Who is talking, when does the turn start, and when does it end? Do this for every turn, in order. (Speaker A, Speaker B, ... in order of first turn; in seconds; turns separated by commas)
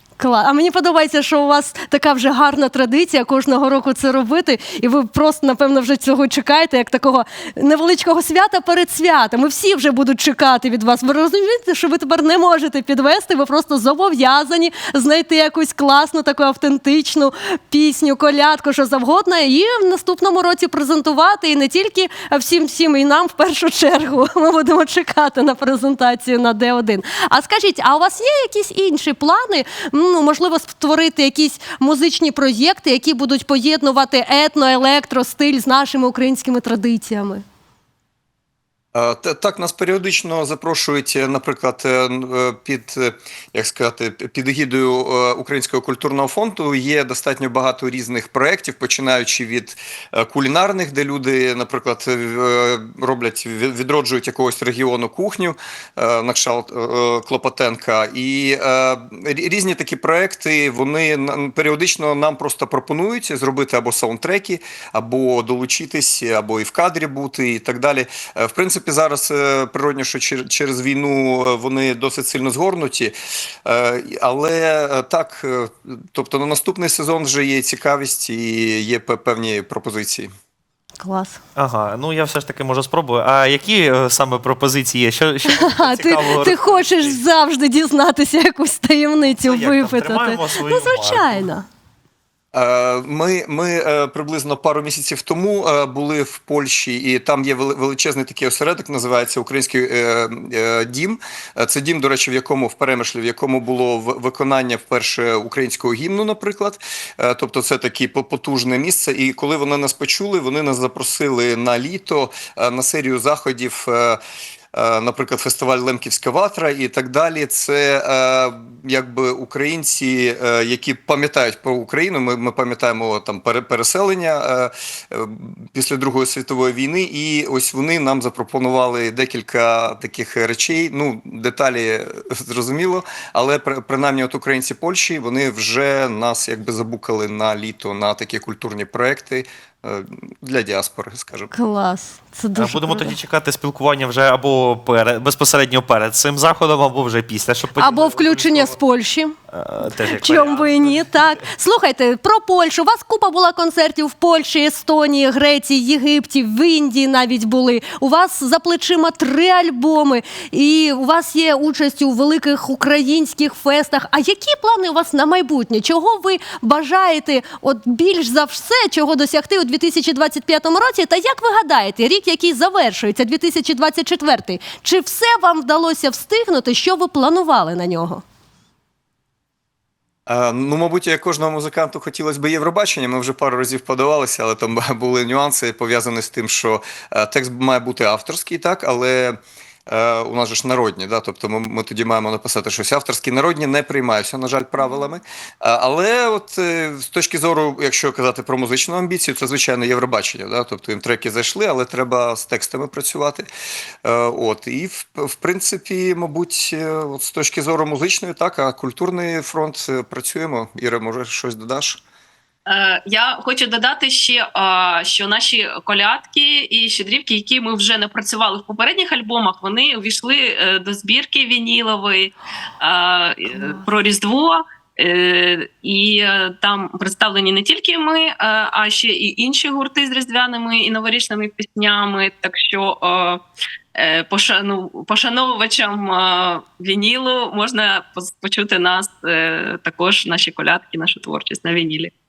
Speaker A: 0.2-37.4, Speaker B: 38.9-80.3, Speaker A: 81.0-81.4, Speaker C: 81.6-87.2, Speaker A: 85.5-91.7, Speaker C: 89.4-91.5, Speaker B: 92.5-114.2, Speaker B: 114.7-141.5, Speaker A: 141.5-143.2, Speaker C: 142.6-148.8, Speaker A: 147.8-149.3, Speaker C: 149.5-151.3, Speaker A: 150.1-178.2, Speaker B: 180.3-203.5, Speaker B: 204.0-212.0, Speaker D: 212.7-233.4, Speaker D: 233.9-242.1